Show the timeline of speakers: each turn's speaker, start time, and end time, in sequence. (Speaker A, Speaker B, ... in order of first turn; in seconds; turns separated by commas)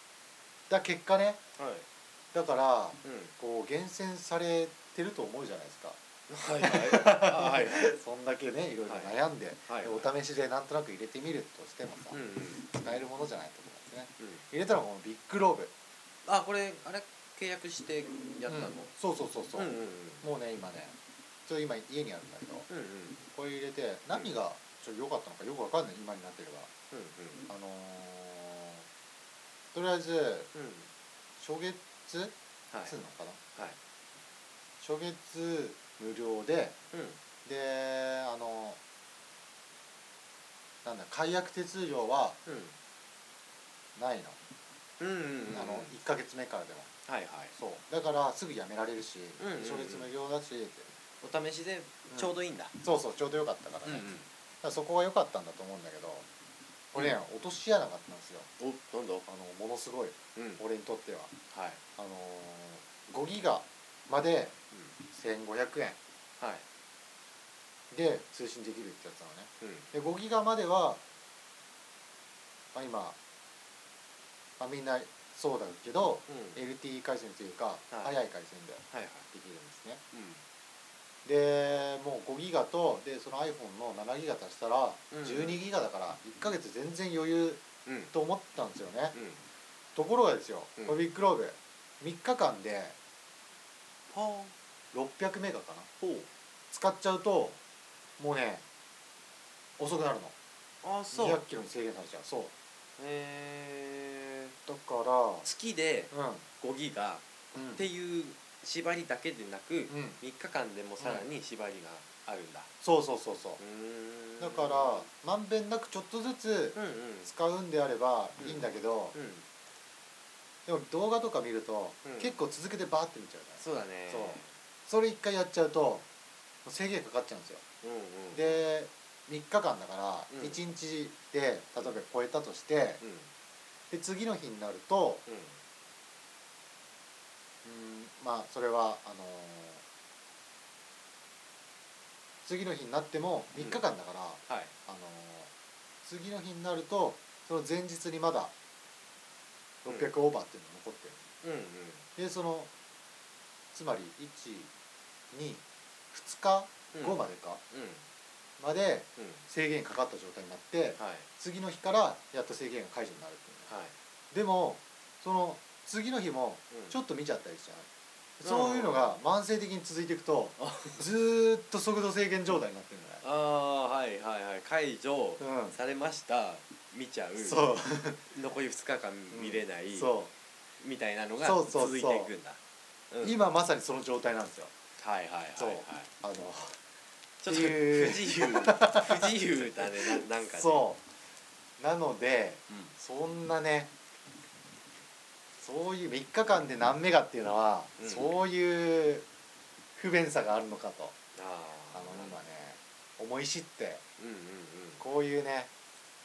Speaker A: 0.7-1.4, Speaker B: 1.6-1.9, Speaker A: 2.3-6.0, Speaker B: 3.0-3.3, Speaker B: 6.3-7.9, Speaker A: 6.6-15.7, Speaker B: 8.9-10.1, Speaker B: 12.1-12.7, Speaker B: 16.3-18.9, Speaker A: 18.5-21.0, Speaker B: 19.6-20.3, Speaker A: 21.5-22.7, Speaker B: 22.7-23.2, Speaker A: 23.3-26.7, Speaker B: 26.9-27.5, Speaker A: 27.5-28.9, Speaker A: 29.7-30.5, Speaker B: 30.5-30.9, Speaker A: 31.4-32.3, Speaker B: 32.7-33.0, Speaker A: 32.9-33.4, Speaker A: 34.8-36.8, Speaker B: 36.9-37.2, Speaker A: 37.5-38.8, Speaker A: 40.8-42.4, Speaker B: 42.5-42.8, Speaker A: 44.0-44.4, Speaker B: 45.0-45.9, Speaker A: 45.5-46.9, Speaker B: 47.1-47.5, Speaker A: 47.5-50.9, Speaker B: 49.4-50.1, Speaker B: 51.2-52.8, Speaker A: 52.1-54.1, Speaker B: 53.9-54.3, Speaker A: 54.6-56.3, Speaker A: 56.9-58.5, Speaker B: 58.6-59.3, Speaker A: 59.3-61.3, Speaker B: 60.4-60.6, Speaker B: 61.5-61.8, Speaker A: 62.0-64.5, Speaker A: 65.1-66.0, Speaker B: 66.4-66.7, Speaker A: 67.9-71.0, Speaker B: 69.6-69.9, Speaker A: 72.7-73.2, Speaker A: 74.6-80.0, Speaker B: 76.3-76.6, Speaker B: 78.9-79.3, Speaker B: 80.1-80.4, Speaker A: 81.2-89.2, Speaker B: 85.1-85.6, Speaker B: 87.9-88.1, Speaker B: 89.1-89.4, Speaker A: 90.0-93.0, Speaker B: 94.1-94.5, Speaker A: 94.9-95.9, Speaker B: 96.0-96.3, Speaker A: 96.7-97.6, Speaker A: 98.2-98.6, Speaker A: 99.8-100.3, Speaker B: 100.8-101.4, Speaker A: 101.1-102.5, Speaker B: 103.0-104.5, Speaker A: 104.7-105.5, Speaker B: 105.4-107.2, Speaker A: 106.1-106.5, Speaker A: 107.5-107.8, Speaker B: 107.8-112.7, Speaker A: 109.9-110.2, Speaker A: 111.0-111.3, Speaker A: 112.8-113.6, Speaker B: 113.6-115.1, Speaker A: 114.4-119.2, Speaker B: 116.8-117.3, Speaker B: 118.4-119.5, Speaker A: 120.7-126.1, Speaker B: 122.0-122.4, Speaker B: 123.6-124.5, Speaker A: 126.7-127.6, Speaker B: 127.8-128.6, Speaker A: 128.3-133.0, Speaker B: 130.3-130.6, Speaker B: 133.0-133.3, Speaker A: 133.9-135.2, Speaker B: 135.3-135.6, Speaker A: 137.6-139.8, Speaker A: 142.4-145.5, Speaker B: 144.5-144.7, Speaker A: 146.0-148.5, Speaker A: 149.8-151.2, Speaker B: 149.9-150.1, Speaker B: 151.4-152.1, Speaker A: 152.2-152.7, Speaker A: 153.7-154.7, Speaker A: 155.3-157.6, Speaker B: 156.9-157.2, Speaker B: 157.7-158.0, Speaker A: 158.6-163.7, Speaker B: 159.2-159.4, Speaker B: 161.0-161.3, Speaker B: 163.7-163.9, Speaker A: 164.3-167.9, Speaker B: 166.7-167.0, Speaker A: 168.4-173.2, Speaker B: 168.4-169.2, Speaker B: 170.6-171.0, Speaker B: 173.2-177.7, Speaker A: 175.4-175.8, Speaker A: 177.4-178.2, Speaker B: 178.3-180.1, Speaker A: 179.3-180.3, Speaker B: 180.8-182.6, Speaker A: 181.4-182.3, Speaker B: 183.1-183.4, Speaker A: 183.2-184.7, Speaker B: 185.0-186.1, Speaker A: 185.6-186.8, Speaker B: 187.4-190.9, Speaker A: 187.5-191.0, Speaker A: 191.8-193.9, Speaker A: 195.6-199.3, Speaker B: 198.0-198.3, Speaker A: 199.9-201.2, Speaker B: 201.3-202.4, Speaker A: 201.9-204.0, Speaker B: 204.2-205.0, Speaker A: 205.0-205.7